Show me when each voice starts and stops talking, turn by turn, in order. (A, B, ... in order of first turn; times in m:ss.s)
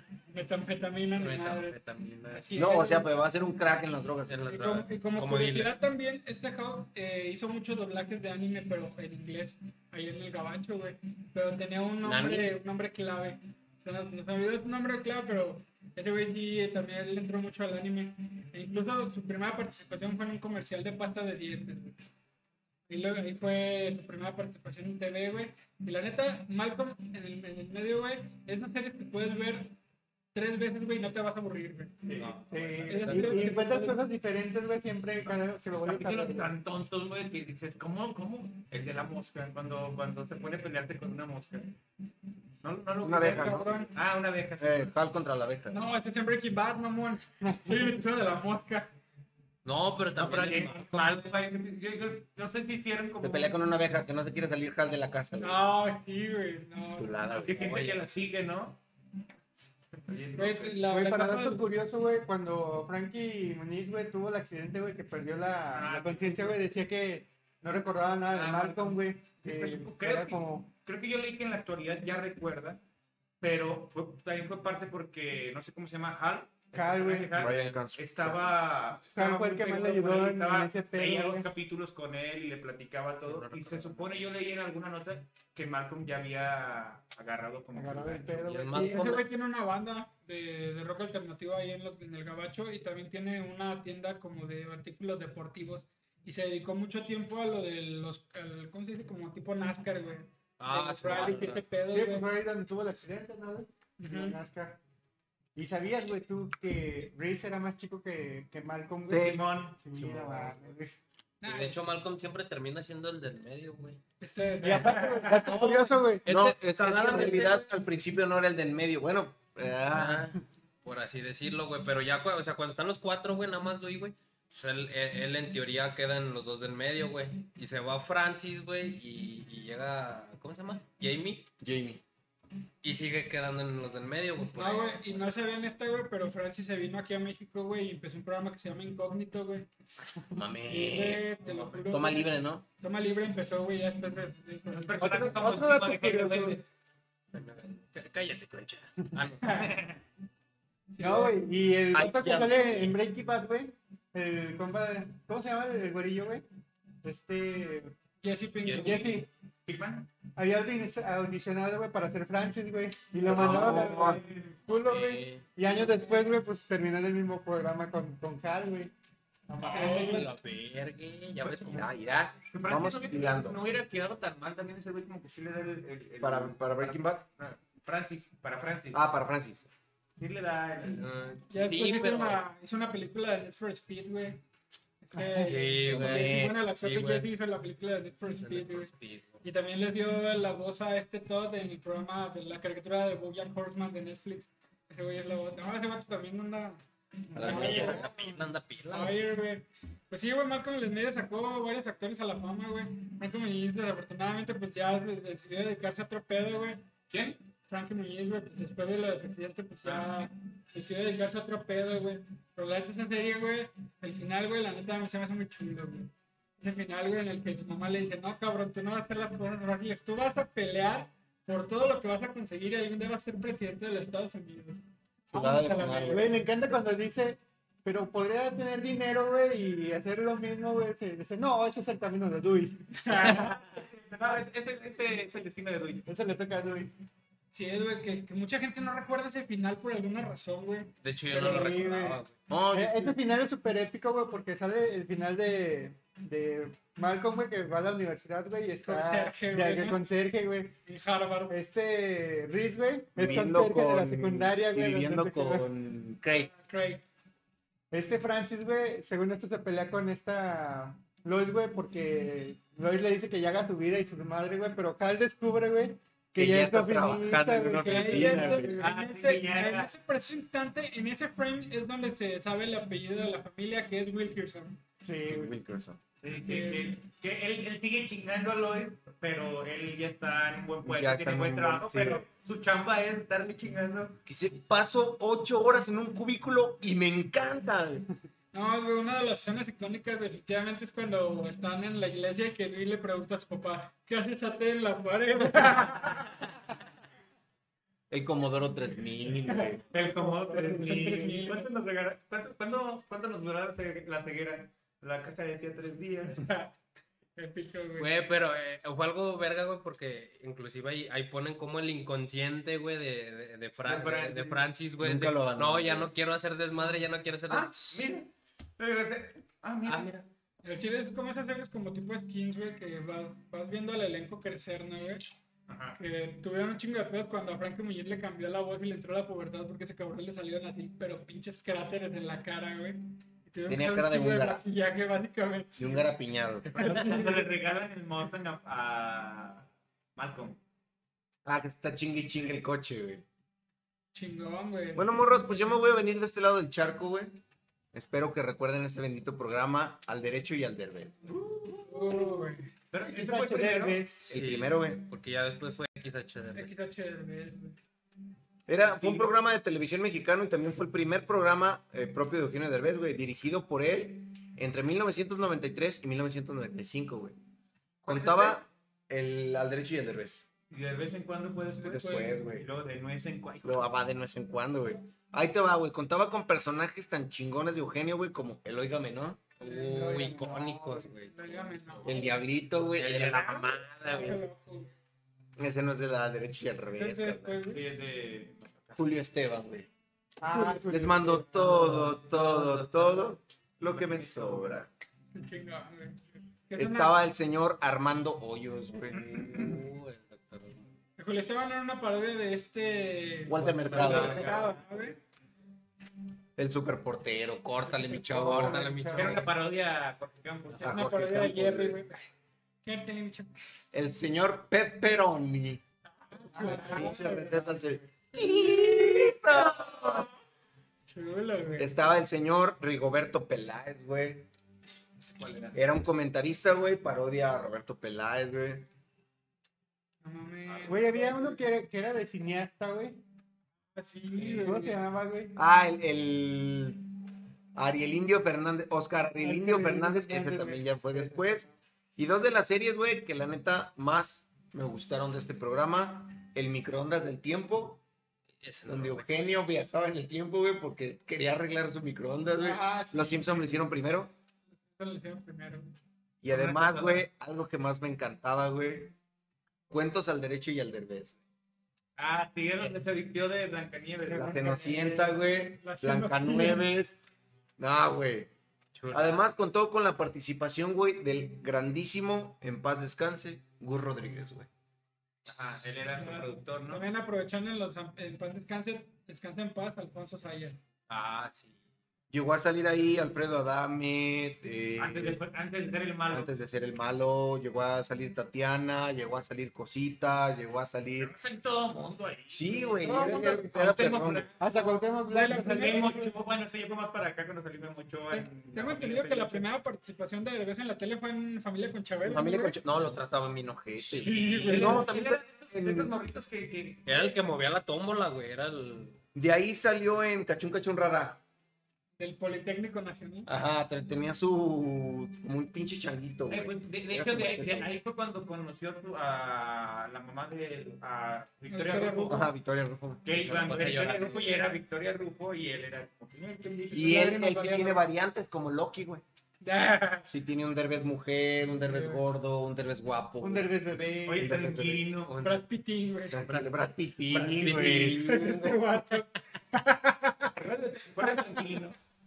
0:00.3-0:01.8 A
0:01.2-0:02.4 B
0:02.3-0:03.1 A
0:02.6-0:04.4 C
0:04.3-0:05.8 B
0:04.5-0:22.0 A
0:12.0-0:12.6 C
0:22.9-0:29.7 A
0:30.3-0:32.0 A
0:32.0-0:33.4 D
0:32.2-0:33.5 B
0:32.5-0:36.5 E
0:32.9-0:34.0 A
0:35.8-0:41.8 D
0:42.6-0:44.9 D
0:43.0-0:43.9 C
0:43.2-0:44.0 A
0:44.6-0:45.8 C
0:45.7-0:48.9 A
0:47.4-0:48.0 E
0:49.6-0:51.4 B
0:50.2-0:53.6 D
0:53.2-0:55.6 C
0:55.4-0:57.2 A
0:57.0-0:57.7 C
0:57.4-0:58.8 D
0:57.5-0:58.0 B
1:00.1-1:00.8 D
1:00.3-1:01.7 A
1:00.9-1:10.7 E
1:05.7-1:06.6 D
1:08.3-1:12.8 D
1:13.4-1:28.5 D
1:16.7-1:17.5 E
1:17.4-1:18.6 C
1:17.4-1:17.8 B
1:19.1-1:21.5 E
1:23.3-1:24.3 B
1:27.7-1:29.2 E
1:28.4-1:29.2 B
1:28.7-1:42.3 A
1:40.6-1:41.6 B
1:41.2-1:44.8 E
1:44.0-1:44.4 A
1:45.6-1:50.9 E
1:49.1-1:49.4 C
1:49.2-1:49.8 D
1:50.0-1:50.5 B
1:51.4-1:51.8 A
1:51.4-1:54.0 B
1:54.2-1:56.0 A
1:54.6-1:56.3 E
1:54.8-1:55.5 D
1:56.3-1:57.6 B
1:56.3-2:00.4 C
1:59.9-2:11.5 B
2:11.6-2:12.0 C
2:12.8-2:15.2 B
2:14.6-2:19.7 A
2:20.3-2:22.6 C
2:20.7-2:25.3 A
2:21.5-2:21.8 B
2:24.8-2:26.6 D
2:25.0-2:26.6 E
2:27.3-2:29.9 B
2:29.7-2:30.0 D
2:31.0-2:31.3 A
2:31.0-2:36.4 E
2:31.9-2:33.0 C
2:37.0-2:37.9 E
2:38.2-2:39.2 A
2:38.7-2:39.0 B
2:38.7-2:39.3 E
2:39.7-2:40.1 D
2:40.4-2:48.9 E
2:43.2-2:44.2 C
2:43.4-2:43.9 B
2:43.6-2:44.5 D
2:44.7-2:45.5 B
2:49.5-2:50.3 E
2:49.6-2:50.2 A
2:49.6-2:51.9 B
2:51.4-2:51.9 D
2:51.7-2:53.6 C
2:52.5-2:59.0 D
2:56.2-2:57.3 C
2:58.9-2:59.7 C
3:00.2-3:01.1 D
3:01.0-3:02.4 B
3:01.5-3:04.4 A
3:05.0-3:08.9 A
3:05.2-3:05.6 E
3:05.4-3:07.3 B
3:05.9-3:06.6 C
3:08.4-3:09.4 B
3:09.4-3:18.1 A
3:17.4-3:18.1 C
3:17.4-3:19.2 B
3:17.9-3:18.3 E
3:18.9-3:46.5 A
3:29.8-3:30.3 D
3:45.3-3:46.4 C
3:45.8-3:53.0 E
3:53.0-3:53.7 A
3:53.1-3:56.0 D
3:56.1-3:56.9 E
3:57.5-4:00.9 A
4:01.0-4:02.3 B
4:01.3-4:02.2 E
4:02.5-4:03.2 C
4:02.7-4:10.8 E
4:08.8-4:10.0 A
4:10.9-4:11.6 A
4:11.5-4:15.7 E
4:13.2-4:16.5 C
4:16.5-4:17.0 A
4:17.9-4:28.8 E
4:26.4-4:28.8 C
4:27.8-4:34.8 A
4:28.7-4:29.9 D
4:35.0-4:35.6 E
4:35.3-4:36.0 C
4:36.2-4:44.2 D
4:36.3-4:37.0 A
4:40.8-4:42.3 C
4:44.3-4:48.1 C
4:48.5-4:56.3 A
4:58.1-4:59.8 C
4:59.8-5:06.4 D
5:00.3-5:01.7 A
5:06.3-5:06.7 A
5:07.4-5:08.1 A
5:08.0-5:18.1 B
5:13.8-5:14.7 D
5:15.0-5:16.1 C
5:17.5-5:20.1 D
5:19.8-5:20.3 B
5:20.6-5:25.2 A
5:25.7-5:26.0 D
5:26.0-5:36.1 A
5:33.7-5:34.6 C
5:35.8-5:36.7 C
5:36.7-5:40.6 D
5:36.8-5:37.5 A
5:41.4-5:43.2 C
5:44.1-5:45.7 A
5:45.0-5:47.4 C
5:47.9-5:51.2 C
5:51.8-5:52.7 A
5:52.0-5:52.3 E
5:52.9-5:54.0 D
5:53.0-5:54.3 E
5:54.2-5:55.0 C
5:54.3-5:56.7 B
5:56.6-5:57.8 A
5:58.7-6:07.4 C
6:08.0-6:10.5 C
6:08.1-6:08.6 D
6:10.7-6:13.9 D
6:11.8-6:12.4 A
6:11.8-6:12.7 C
6:13.6-6:19.4 C
6:19.6-6:21.4 B
6:19.6-6:20.5 A
6:19.7-6:21.1 E
6:21.3-6:22.4 A
6:22.0-6:24.2 C
6:23.0-6:24.4 B
6:24.0-6:24.9 A
6:25.6-6:27.6 C
6:27.0-6:27.8 A
6:27.6-6:29.0 D
6:29.0-6:29.9 C
6:30.4-6:32.2 E
6:30.8-6:34.9 C
6:32.2-6:33.4 B
6:33.8-6:34.8 D
6:35.4-6:37.2 A
6:36.8-6:39.2 C
6:39.1-6:40.9 B
6:41.2-6:45.2 A
6:43.5-6:44.5 C
6:43.6-6:44.8 B
6:43.9-6:44.8 D
6:46.6-6:48.9 C
6:48.3-6:49.4 E
6:48.3-6:49.5 B
6:49.1-6:51.1 D
6:50.8-6:52.0 C
6:50.8-6:52.2 A
6:52.8-6:53.5 A
6:53.9-6:55.8 C
6:56.3-6:57.5 A
6:56.5-6:58.0 E
6:56.6-7:00.3 C
7:01.1-7:02.1 A
7:01.8-7:04.5 C
7:05.2-7:05.8 D
7:05.7-7:08.9 C
7:10.2-7:11.6 A
7:10.7-7:11.1 D
7:10.9-7:13.2 E
7:14.0-7:15.0 A
7:14.4-7:14.7 D
7:14.5-7:15.6 E
7:15.6-7:17.1 C
7:17.8-7:28.0 C
7:19.4-7:21.7 E
7:28.6-7:29.3 B
7:28.9-7:34.3 C
7:32.6-7:33.8 E
7:34.8-7:35.9 A
7:36.4-7:39.2 C
7:36.5-7:37.2 D
7:39.9-7:41.4 C
7:42.2-7:44.8 D
7:44.3-7:45.3 E
7:44.3-7:47.2 C
7:45.8-7:46.8 A
7:47.8-7:48.5 C
7:49.0-7:49.4 B
7:49.1-7:54.7 C
7:55.5-7:57.1 D
7:56.1-8:00.8 A
8:01.1-8:01.8 B
8:02.3-8:05.4 C
8:05.0-8:06.5 D
8:06.3-8:11.3 C
8:11.2-8:14.6 D
8:12.5-8:14.5 C
8:13.1-8:13.7 E
8:14.6-8:16.3 E
8:14.8-8:16.3 A
8:15.7-8:19.7 D
8:18.3-8:22.8 A
8:22.2-8:26.1 C
8:24.0-8:25.1 A
8:24.2-8:27.1 D
8:27.1-8:29.2 B
8:29.4-8:31.4 C
8:32.2-8:33.5 A
8:33.5-8:37.9 C
8:36.5-8:42.4 D
8:41.7-8:42.4 A
8:42.3-8:43.6 C
8:43.2-8:46.7 D
8:43.3-8:44.5 B
8:46.8-8:48.0 A
8:46.9-8:47.2 E
8:46.9-8:49.2 C
8:49.6-8:50.3 A
8:50.3-8:53.8 C
8:51.9-8:52.2 A
8:53.4-8:54.8 E
8:54.3-8:55.4 D
8:54.4-8:55.2 C
8:55.3-8:55.6 B
8:55.4-8:56.5 A
8:56.3-8:58.8 C
8:56.5-8:56.7 B
8:57.3-8:58.1 D
8:57.6-9:00.5 A
9:00.6-9:02.0 D
9:01.2-9:01.6 A